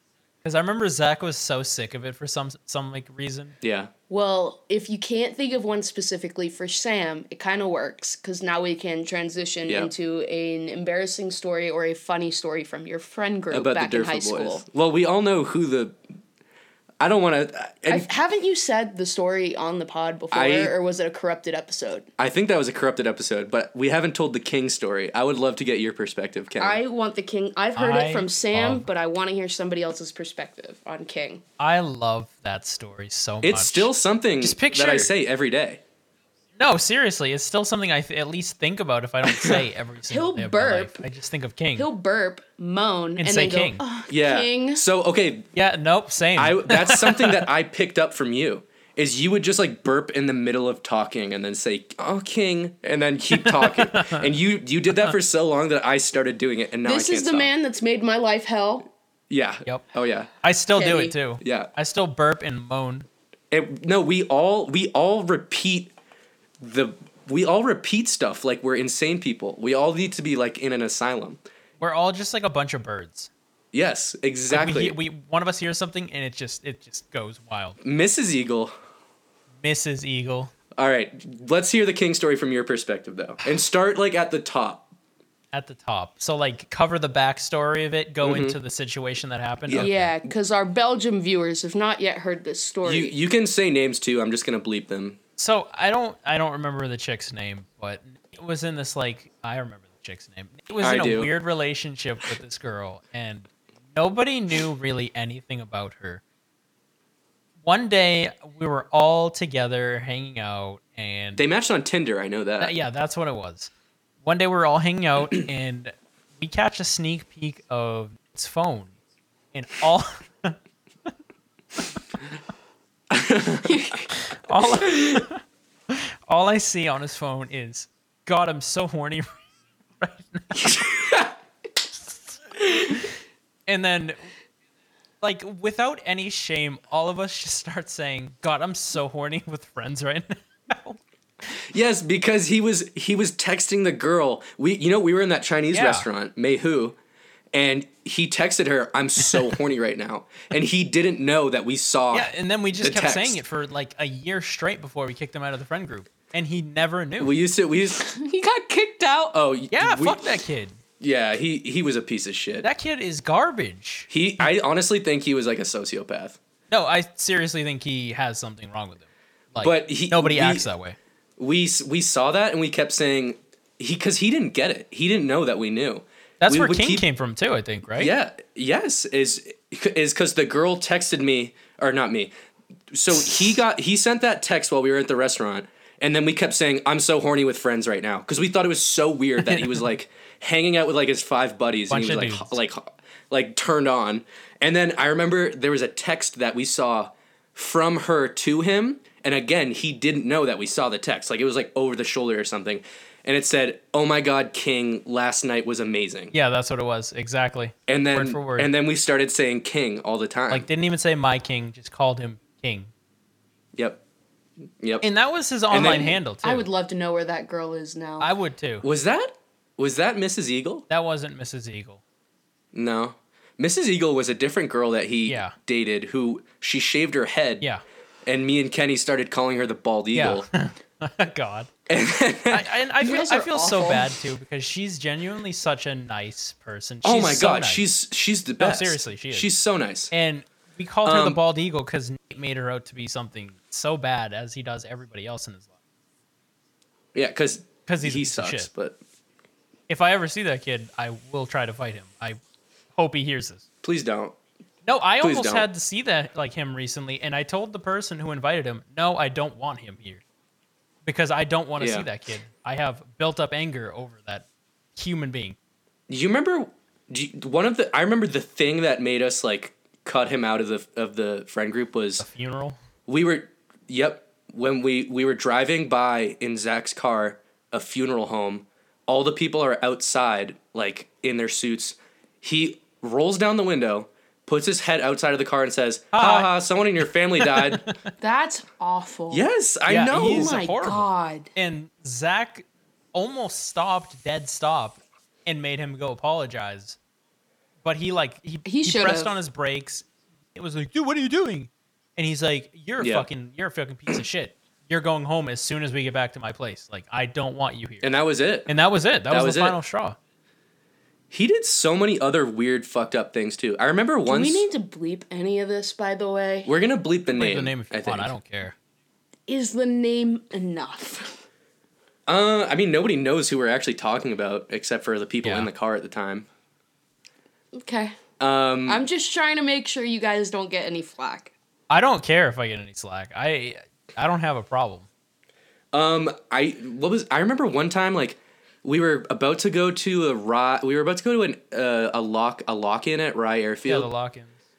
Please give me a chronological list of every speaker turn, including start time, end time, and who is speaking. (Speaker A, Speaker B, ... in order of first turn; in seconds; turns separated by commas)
Speaker A: 0.4-3.6, Speaker B: 3.6-3.9, Speaker C: 4.1-14.6, Speaker B: 13.5-16.0, Speaker B: 17.0-18.1, Speaker C: 17.9-22.1, Speaker B: 20.3-20.7, Speaker B: 22.2-26.8, Speaker C: 26.6-31.4, Speaker A: 27.7-28.9, Speaker A: 31.6-35.1, Speaker B: 33.4-35.8, Speaker A: 36.6-41.9, Speaker B: 39.3-39.6, Speaker C: 40.1-41.0, Speaker C: 41.8-44.8, Speaker A: 43.2-43.8, Speaker B: 44.1-45.5, Speaker A: 45.5-47.5, Speaker B: 46.4-57.5, Speaker A: 53.3-54.3, Speaker C: 56.8-58.9, Speaker B: 59.3-60.3, Speaker A: 60.4-63.1, Speaker C: 60.7-61.1, Speaker B: 61.4-61.7, Speaker B: 63.5-65.9, Speaker B: 66.6-71.4, Speaker A: 71.8-73.3, Speaker B: 73.7-75.0, Speaker A: 74.5-77.8, Speaker B: 77.8-78.7, Speaker A: 79.6-80.5, Speaker B: 80.7-84.9, Speaker A: 85.5-90.1, Speaker B: 88.2-88.5, Speaker C: 89.8-93.1, Speaker B: 92.8-95.2, Speaker A: 95.4-106.2, Speaker B: 100.8-101.3, Speaker A: 107.6-111.4, Speaker B: 111.4-112.7, Speaker A: 112.6-113.7, Speaker A: 114.2-118.9, Speaker A: 119.5-120.6, Speaker B: 123.1-123.7, Speaker C: 123.7-124.0, Speaker A: 124.3-129.3, Speaker A: 130.0-130.9, Speaker B: 130.7-131.3, Speaker A: 133.7-134.2, Speaker A: 135.2-141.0, Speaker B: 141.7-146.9, Speaker A: 145.7-146.1, Speaker B: 147.5-153.4, Speaker A: 152.1-157.3, Speaker B: 157.2-158.1, Speaker C: 157.9-159.3, Speaker B: 159.3-160.3, Speaker A: 159.7-160.8, Speaker B: 161.0-162.7, Speaker A: 162.6-164.5, Speaker B: 164.1-166.4, Speaker A: 166.7-171.0, Speaker B: 169.6-170.7, Speaker B: 171.4-177.0, Speaker A: 176.4-178.1, Speaker B: 178.0-182.3, Speaker B: 182.9-206.3, Speaker A: 191.9-192.6, Speaker A: 206.3-208.7, Speaker B: 207.9-210.7, Speaker A: 210.5-212.9, Speaker B: 213.8-214.0, Speaker B: 214.8-215.0, Speaker A: 215.0-216.7, Speaker B: 215.7-216.1, Speaker C: 215.7-218.3, Speaker A: 218.2-218.8, Speaker B: 218.8-220.8, Speaker A: 220.9-222.0, Speaker B: 222.7-227.6, Speaker A: 225.3-225.6, Speaker B: 228.2-230.4, Speaker A: 230.1-231.7, Speaker B: 231.9-232.7, Speaker A: 232.5-237.8, Speaker C: 233.0-234.1, Speaker B: 237.0-240.1, Speaker A: 238.6-239.5, Speaker A: 240.1-245.7, Speaker B: 241.0-241.4, Speaker B: 247.1-249.0, Speaker A: 247.9-248.7, Speaker A: 249.9-252.4, Speaker A: 252.9-253.6, Speaker B: 253.8-254.3, Speaker A: 254.8-260.2, Speaker B: 255.2-255.7, Speaker A: 261.0-265.6, Speaker B: 261.8-262.1, Speaker B: 266.1-272.2, Speaker A: 272.2-272.8, Speaker B: 273.1-287.9, Speaker A: 286.1-286.5, Speaker A: 287.4-287.9, Speaker C: 288.2-289.5, Speaker B: 289.3-290.6, Speaker A: 289.9-297.0, Speaker C: 290.1-291.5, Speaker A: 297.8-308.1, Speaker C: 298.6-299.3, Speaker B: 303.0-303.3, Speaker B: 308.0-308.7, Speaker A: 308.7-310.2, Speaker B: 309.3-309.8, Speaker B: 311.3-314.6, Speaker C: 314.2-316.7, Speaker B: 316.6-318.3, Speaker A: 317.3-318.7, Speaker C: 319.5-321.4, Speaker B: 322.3-326.5, Speaker A: 325.4-325.7, Speaker C: 327.7-328.2, Speaker B: 328.4-329.0, Speaker C: 328.9-331.5, Speaker A: 331.9-335.1, Speaker B: 335.9-344.1, Speaker A: 343.9-344.5